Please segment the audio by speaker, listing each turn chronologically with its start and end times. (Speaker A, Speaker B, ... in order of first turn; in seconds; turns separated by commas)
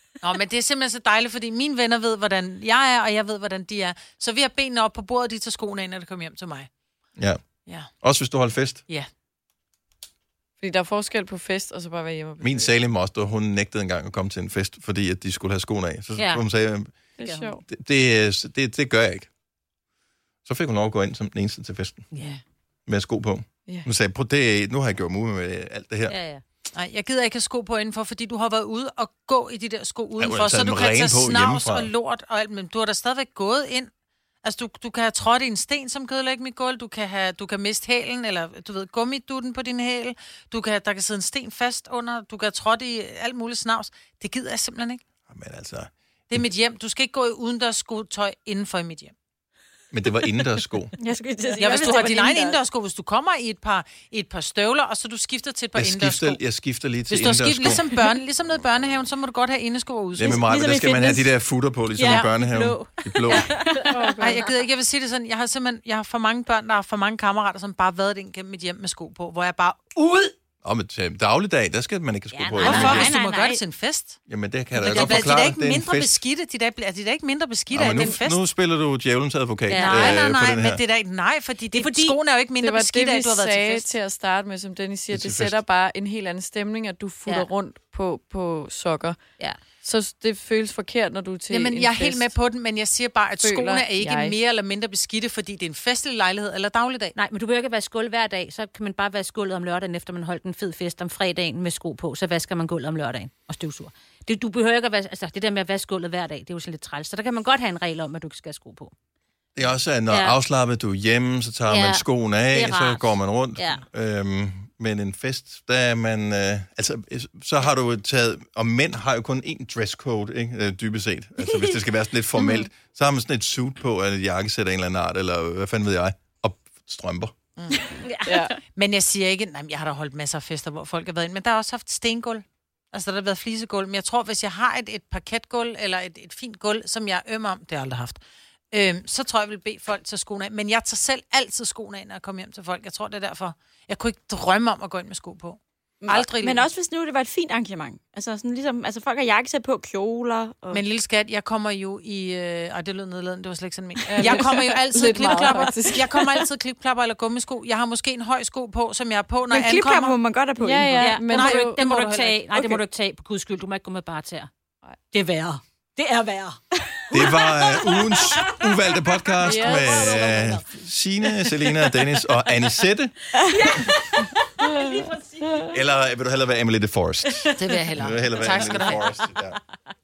Speaker A: 0.2-6.7, Speaker A: 7.7-7.9, Speaker B: 8.0-8.8, Speaker C: 10.6-12.7, Speaker B: 12.4-16.9, Speaker D: 16.2-16.4, Speaker C: 17.2-17.6, Speaker D: 17.2-17.5, Speaker B: 17.7-19.3, Speaker B: 20.4-22.1, Speaker D: 22.1-22.4, Speaker B: 22.9-26.1, Speaker D: 26.1-26.4, Speaker A: 26.7-33.9, Speaker B: 30.2-31.9, Speaker A: 34.4-45.0, Speaker B: 45.3-46.4, Speaker A: 46.3-49.1, Speaker B: 49.9-50.9, Speaker E: 51.0-52.6, Speaker A: 51.6-56.4, Speaker B: 55.7-57.9, Speaker A: 57.1-60.4, Speaker B: 60.1-63.5, Speaker E: 60.3-61.3, Speaker D: 62.0-64.5, Speaker A: 62.0-62.3, Speaker C: 63.7-64.4, Speaker A: 64.2-70.3, Speaker B: 70.6-73.1, Speaker D: 72.3-73.6, Speaker A: 72.6-74.2, Speaker B: 74.3-76.2, Speaker A: 74.8-78.4, Speaker D: 74.9-75.3, Speaker B: 77.7-80.8, Speaker D: 79.7-80.2, Speaker A: 79.7-83.9, Speaker D: 81.7-82.2, Speaker C: 82.6-89.2, Speaker B: 85.1-85.6, Speaker C: 89.8-92.3, Speaker A: 91.5-97.1, Speaker C: 93.4-94.3, Speaker D: 97.1-108.9, Speaker B: 109.5-127.3, Speaker D: 110.1-110.3, Speaker D: 111.7-113.8, Speaker C: 122.4-122.7, Speaker A: 127.6-128.0, Speaker D: 128.0-128.4, Speaker C: 128.2-128.6, Speaker A: 128.6-138.2, Speaker A: 138.7-146.7, Speaker E: 146.0-150.8, Speaker A: 150.7-160.2, Speaker C: 154.1-156.1, Speaker E: 154.2-154.6, Speaker E: 159.5-161.2, Speaker C: 160.6-161.8, Speaker D: 161.0-164.5, Speaker A: 161.2-162.8, Speaker D: 165.1-170.7, Speaker B: 167.1-173.1, Speaker C: 169.4-170.1, Speaker D: 171.3-172.7, Speaker D: 173.3-175.7, Speaker C: 174.6-175.0, Speaker B: 175.7-179.6, Speaker D: 177.3-179.4, Speaker A: 177.6-179.0